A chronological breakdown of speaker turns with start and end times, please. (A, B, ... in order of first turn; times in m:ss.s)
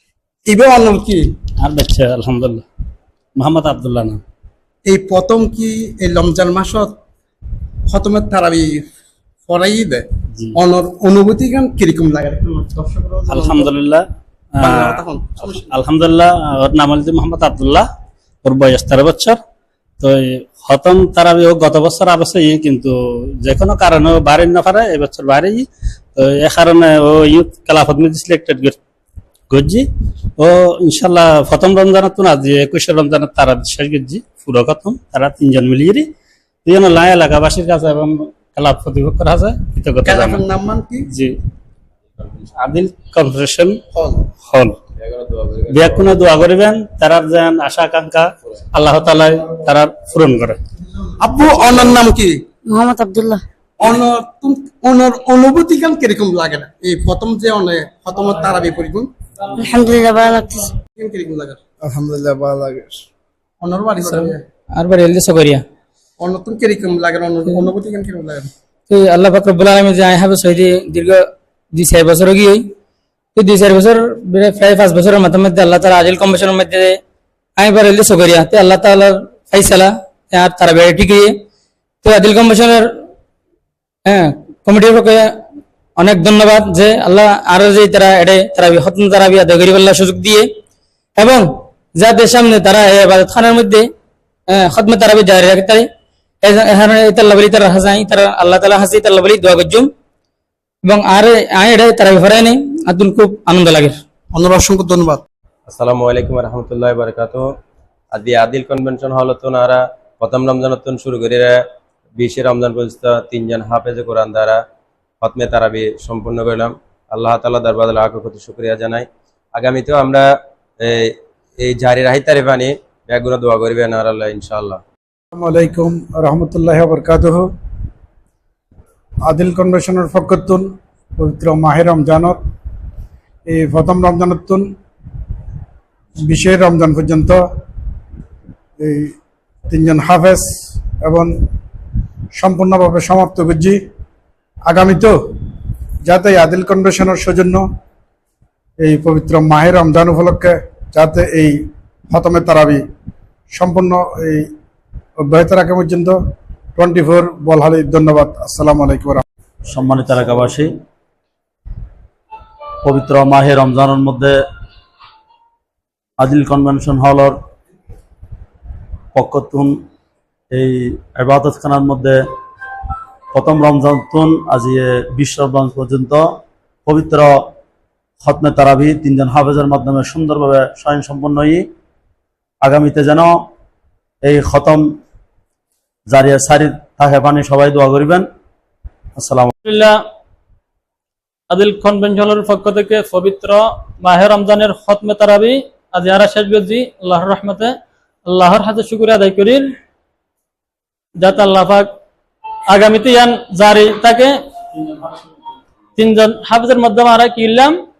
0:00.5-0:01.2 A
0:01.6-0:02.6 B
0:03.4-0:04.2 B
0:04.8-0:06.9 A
0:07.9-0:08.9 A
0:09.4-0:13.7 A
0:13.3-0:14.0 B
0:14.6-0:17.8 B
0:14.6-0:15.6 A
0:18.4-0:19.4 B
0:20.0-0:28.8 B
0:29.5-0:29.8 B
0:30.4-0:36.1 B
0:36.6-0:40.4 B
0:40.0-0:41.1 A
0:42.6-0:43.8 B
0:43.9-0:44.3 A
0:44.4-0:44.8 B
0:45.0-0:46.1 C
0:45.7-0:50.6 B
0:51.2-0:52.4 A
0:52.6-0:53.4 D
0:53.8-0:59.1 A
0:59.6-1:00.7 D
1:00.9-1:01.6 A
1:01.9-1:02.9 E
1:03.6-1:04.4 A
1:04.0-1:05.6 F
1:06.2-1:08.5 A
1:08.9-1:12.7 F
1:13.4-1:17.0 F
1:17.6-1:21.3 F
1:22.0-1:22.9 F
1:24.0-1:25.4 F
1:26.0-1:30.5 F
1:31.2-1:33.9 F
1:34.5-1:35.9 F
1:36.4-1:39.9 F
1:40.8-1:44.0 F
1:44.3-1:45.2 A
1:45.7-1:47.4 C
1:48.1-1:51.6 C
1:52.2-1:54.6 C
1:55.2-2:00.2 C
2:00.8-2:04.8 C
2:05.3-2:07.4 E
2:09.2-2:12.4 E
2:13.4-2:14.6 E
2:16.2-2:17.4 E
2:18.8-2:19.1 E
2:19.7-2:21.3 E
2:22.3-2:23.8 E
2:24.7-2:25.2 E
2:26.0-2:27.6 E
2:28.8-2:32.8 E
2:33.5-2:34.5 E
2:35.2-2:36.2 E
2:36.8-2:39.2 E
2:39.7-2:40.8 G
2:42.8-2:44.4 G
2:46.2-2:47.4 G
2:49.1-2:49.8 G
2:50.5-2:52.2 G
2:53.3-2:57.5 G
2:58.2-3:01.6 G
3:02.6-3:03.4 G
3:04.2-3:04.9 G
3:06.1-3:08.2 G
3:09.2-3:09.5 G
3:09.6-3:10.0 H
3:11.5-3:19.7 H
3:21.2-3:21.9 H
3:22.7-3:24.4 H
3:26.0-3:27.8 H